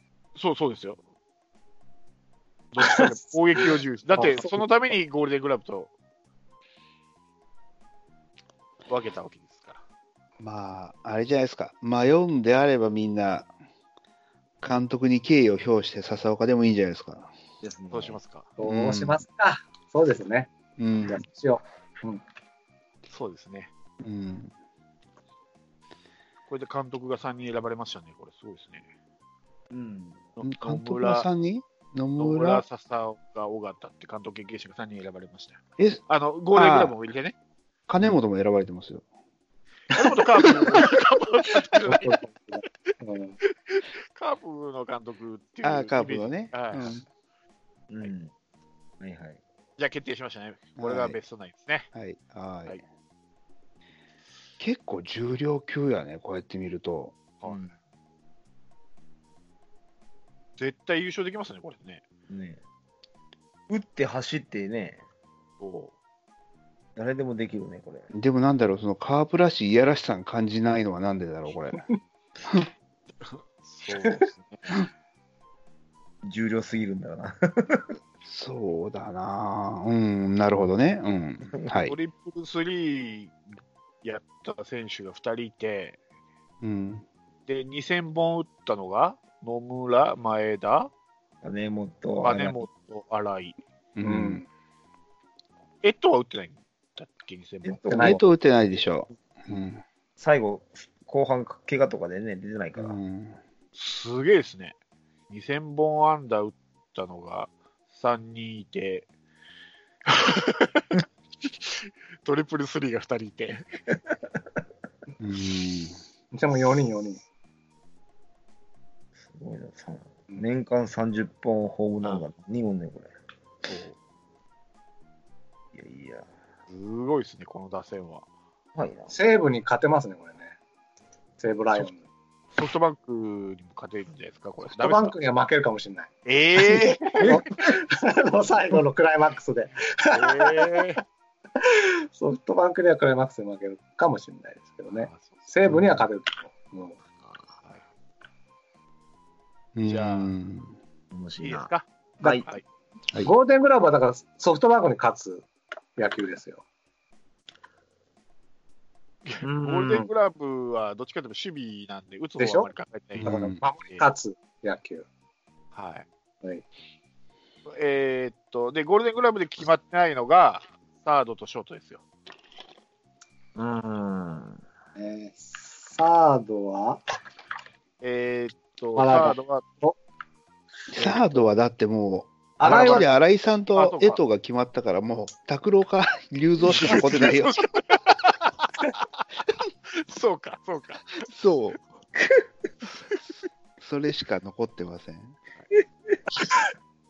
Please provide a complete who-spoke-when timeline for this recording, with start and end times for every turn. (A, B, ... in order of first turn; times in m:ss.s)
0:00.3-0:01.0 A
0:02.7-0:05.9 A
0:02.8-0:04.6 B
0:08.9-0:09.8 A
0:10.4-0:13.5 C
0:14.6-0:17.3 C
0:17.6-0:18.2 D
0:17.9-0:18.5 A
0:18.6-0:20.5 B
0:18.6-0:19.2 C
0:20.8-0:21.2 C
0:21.0-0:22.2 B
0:23.1-0:23.7 A
0:24.0-0:24.5 C
0:26.5-0:28.9 A
0:29.7-0:30.2 D
0:30.4-0:31.3 A
0:30.4-0:32.6 C
0:32.2-0:37.3 A
0:36.5-0:36.9 C
0:37.9-0:39.0 C
0:39.9-0:42.2 A
0:41.9-0:43.4 B
0:43.4-0:46.9 A
0:45.6-0:47.0 C
0:47.9-0:48.3 D
0:49.0-0:49.4 D
0:49.8-0:51.9 A
0:50.8-0:51.2 C
0:51.9-0:52.8 C
0:54.6-0:57.2 C
0:57.4-0:57.7 A
0:57.4-0:57.7 D
1:00.6-1:02.0 A
1:02.3-1:02.6 D
1:03.7-1:05.0 D
1:05.6-1:05.9 A
1:07.0-1:08.1 D
1:08.1-1:11.8 C
1:13.2-1:14.8 A
1:16.2-1:18.0 D
1:18.2-1:21.9 C
1:21.8-1:23.4 A
1:24.0-1:26.0 A
1:26.6-1:27.0 C
1:27.5-1:30.9 A
1:31.4-1:32.6 D
1:32.2-1:33.6 A
1:34.0-1:34.4 C
1:34.0-1:34.4 B
1:35.8-1:37.8 A
1:37.6-1:38.2 D
1:37.9-1:38.2 B
1:37.9-1:39.8 C
1:40.2-1:43.0 D
1:42.8-1:43.4 C
1:43.8-1:44.7 A
1:45.3-1:49.1 A
1:50.1-1:50.8 A
1:51.4-1:53.7 A
1:55.2-1:56.0 C
1:56.3-1:57.2 B
1:59.2-2:03.1 D
2:03.7-2:03.9 A
2:05.7-2:06.3 D
2:06.7-2:08.2 A
2:08.7-2:09.1 D
2:09.1-2:10.5 B
2:11.4-2:12.0 B
2:12.5-2:15.2 A
2:14.7-2:20.6 B
2:16.2-2:17.4 A
2:20.1-2:21.0 A
2:21.6-2:27.0 B
2:24.9-2:25.4 A
2:25.7-2:26.0 C
2:29.7-2:30.7 C
2:29.8-2:30.3 A
2:31.1-2:31.7 D
2:31.4-2:32.6 A
2:32.2-2:32.5 D
2:33.2-2:36.6 B
2:39.2-2:43.3 A
2:39.4-2:40.1 D
2:42.4-2:42.7 B
2:43.2-2:43.6 C
2:43.2-2:45.0 B
2:45.7-2:46.1 A
2:47.7-2:52.0 A
2:53.5-2:54.6 D
2:55.0-2:57.0 B
2:58.0-2:59.6 A
2:59.0-3:00.0 B
3:00.9-3:07.6 C
3:00.9-3:01.5 A
3:02.6-3:03.1 B
3:02.6-3:03.1 A
3:03.7-3:04.2 A
3:06.7-3:09.0 A
3:09.9-3:11.2 A
3:11.2-3:11.8 C
3:12.2-3:12.4 D
3:13.8-3:15.4 C
3:15.7-3:16.2 D